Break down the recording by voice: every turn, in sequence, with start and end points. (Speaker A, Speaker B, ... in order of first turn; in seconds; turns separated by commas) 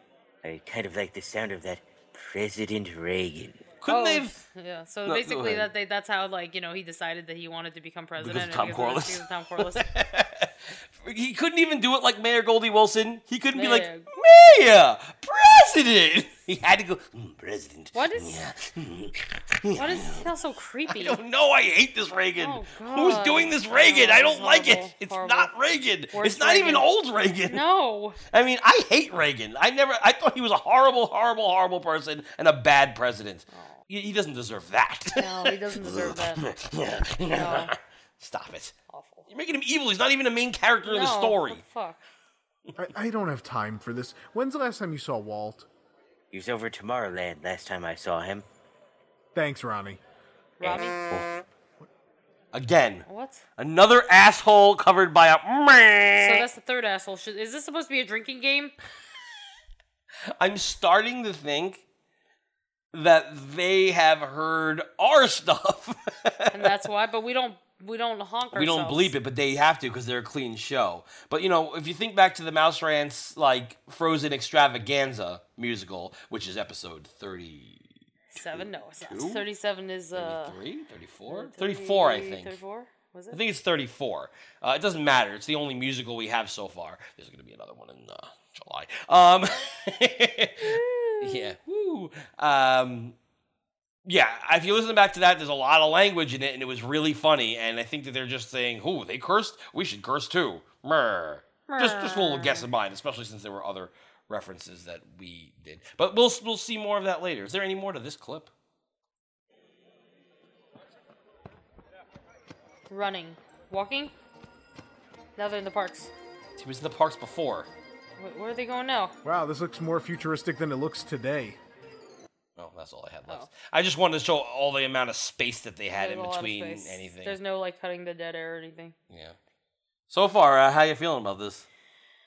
Speaker A: 0.4-3.8, Speaker B: 3.8-4.3, Speaker C: 3.9-9.9, Speaker B: 5.1-5.7, Speaker B: 8.2-20.3, Speaker C: 13.5-14.1, Speaker C: 17.9-18.4, Speaker C: 19.8-21.2, Speaker B: 20.9-27.6, Speaker C: 22.4-25.5, Speaker C: 26.1-26.9, Speaker C: 27.5-28.2, Speaker B: 28.3-38.8, Speaker C: 33.5-33.8, Speaker C: 35.2-36.5, Speaker C: 37.3-37.7, Speaker C: 38.9-39.3, Speaker B: 39.3-41.6, Speaker C: 40.9-42.0, Speaker D: 42.8-45.7, Speaker A: 46.3-48.5, Speaker D: 49.4-50.0, Speaker C: 50.6-51.0, Speaker B: 50.6-51.2, Speaker B: 52.5-53.0, Speaker C: 53.1-53.5, Speaker B: 53.6-56.5, Speaker C: 56.2-58.7, Speaker B: 60.4-61.8, Speaker B: 62.9-66.8, Speaker C: 66.5-69.1, Speaker B: 68.5-79.5, Speaker C: 78.3-80.6, Speaker B: 80.1-82.6, Speaker C: 81.3-83.4, Speaker B: 83.3-93.2, Speaker C: 90.6-91.5, Speaker B: 94.0-108.5, Speaker C: 101.7-102.7, Speaker C: 112.9-114.1, Speaker C: 115.4-116.1, Speaker B: 116.6-117.7, Speaker C: 118.2-119.2, Speaker D: 119.2-121.6, Speaker B: 122.6-127.4, Speaker C: 125.9-128.9, Speaker B: 129.1-129.4, Speaker B: 130.1-131.7